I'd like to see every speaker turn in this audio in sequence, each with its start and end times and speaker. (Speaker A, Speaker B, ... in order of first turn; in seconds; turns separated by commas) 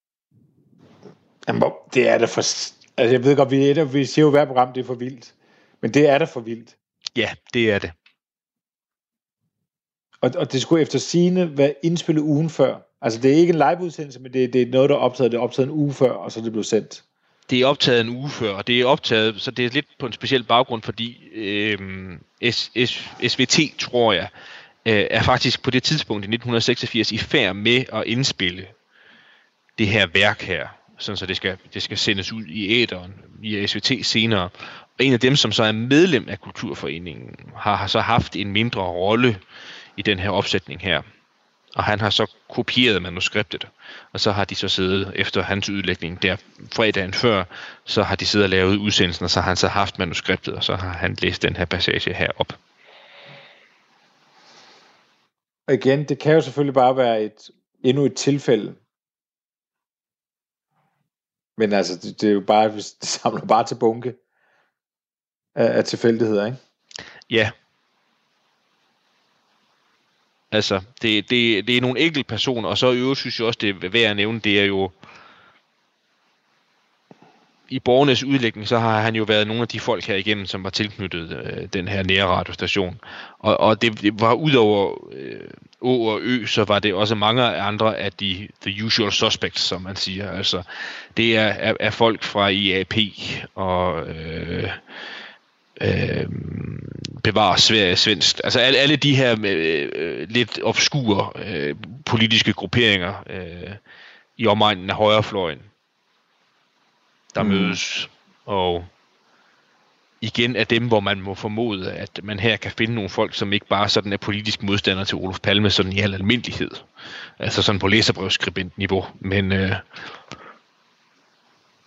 Speaker A: 1.5-6.7, Speaker B: 7.1-7.9, Speaker A: 10.2-17.0, Speaker B: 17.5-24.3, Speaker B: 24.8-28.7, Speaker B: 29.8-39.4, Speaker B: 40.0-41.0, Speaker B: 41.7-52.6, Speaker A: 55.7-58.8, Speaker A: 61.6-64.2, Speaker A: 65.5-66.6, Speaker B: 67.3-67.5, Speaker B: 70.5-74.9, Speaker B: 77.7-94.8, Speaker B: 95.8-103.8, Speaker B: 104.4-105.7, Speaker B: 107.3-108.9, Speaker A: 107.4-107.8, Speaker B: 110.2-116.9, Speaker B: 117.4-120.0